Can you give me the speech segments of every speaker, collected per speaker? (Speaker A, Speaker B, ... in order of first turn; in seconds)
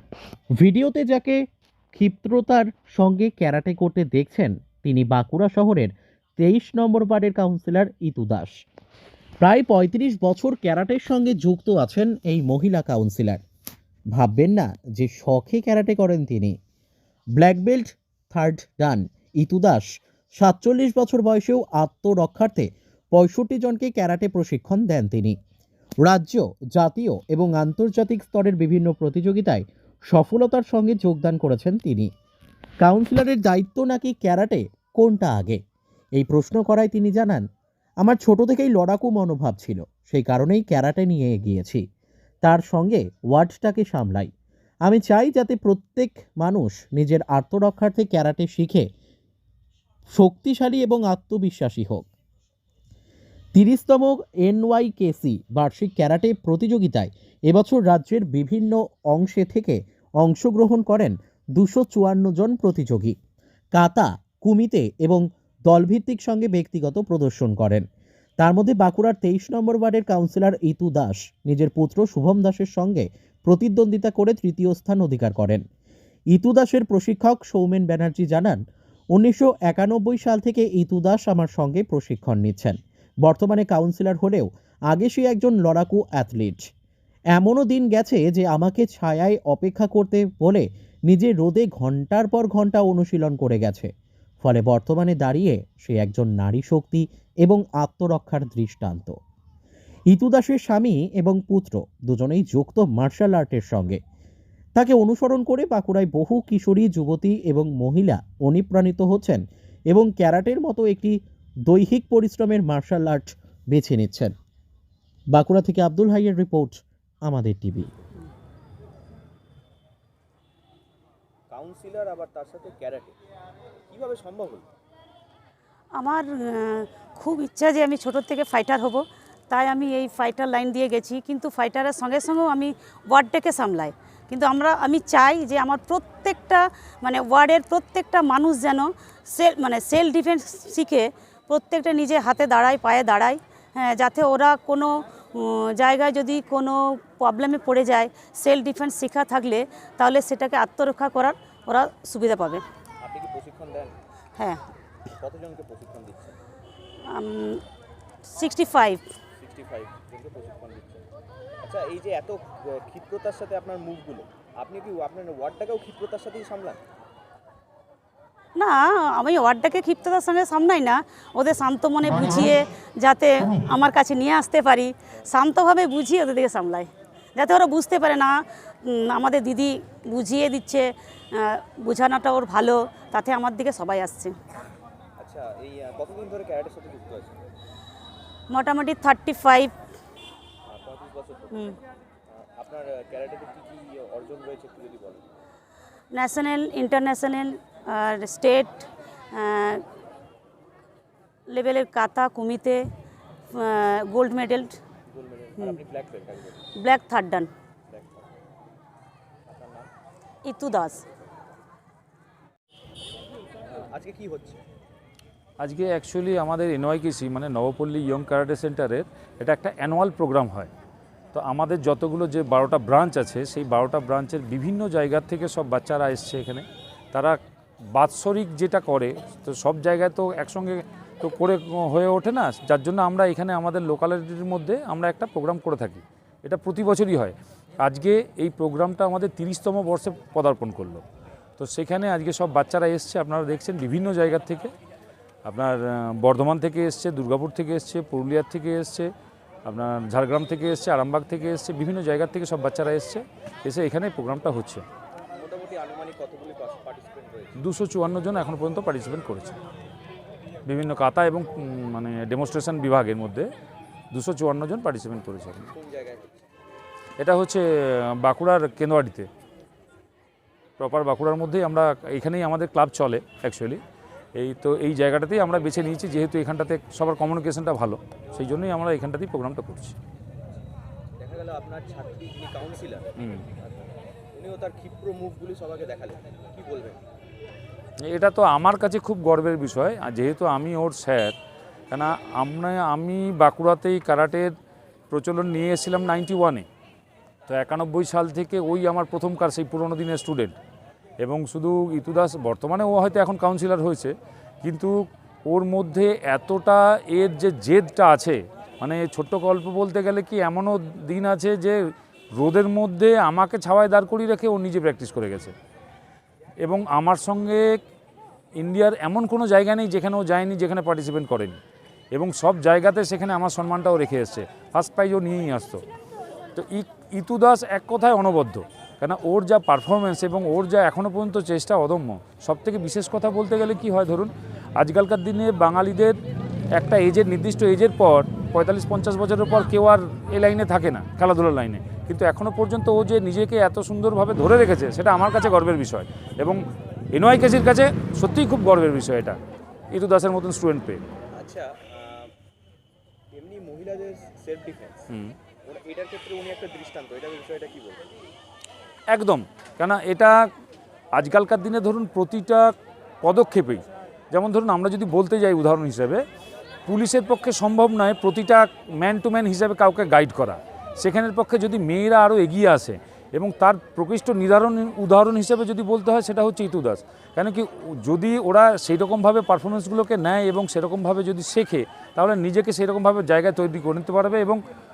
Speaker A: 0.6-8.6, 9.4-13.4, 14.2-16.6, 17.4-19.9, 20.4-25.4, 26.0-32.1, 32.8-35.6, 36.2-37.5, 38.0-41.8, 42.4-44.3, 44.9-48.9, 50.2-52.1, 53.5-63.2, 63.8-67.9, 68.4-75.6, 76.3-78.6, 79.1-86.6, 87.3-93.9, 94.4-99.2, 100.1-104.0, 104.8-111.2, 111.7-114.3, 115.3-117.9
Speaker B: 121.5-123.2, 123.9-124.7, 153.0-154.0, 155.2-156.4, 159.4-161.1, 161.6-166.8, 185.2-187.4, 190.7-191.8, 192.3-195.3, 205.1-206.7, 207.9-208.4, 209.5-209.9, 213.7-214.6, 255.4-257.6, 265.7-266.4, 281.2-287.0, 351.4-352.3, 353.3-355.1, 355.6-358.1
Speaker C: 126.0-152.6, 157.1-157.6, 158.3-159.0, 168.6-184.4, 188.5-189.7, 196.1-199.8, 201.5-202.8, 203.5-204.8, 206.8-207.5, 210.5-211.0
Speaker D: 215.6-220.7, 221.3-227.4, 227.9-241.1, 241.6-244.7, 245.4-249.1, 249.7-254.8, 257.6-259.6, 260.7-263.5, 264.1-265.7, 267.2-269.3, 270.8-273.8, 274.4-280.0, 283.2-283.5, 288.1-291.4, 291.9-294.5, 295.1-296.7, 297.5-300.6, 301.2-304.9, 305.5-311.8, 312.4-315.5, 316.6-317.6, 318.6-321.6, 322.1-325.8, 326.6-336.2, 336.7-349.4, 349.9-351.0, 355.1-355.4, 359.1-360.4, 361.1-366.2, 366.9-384.6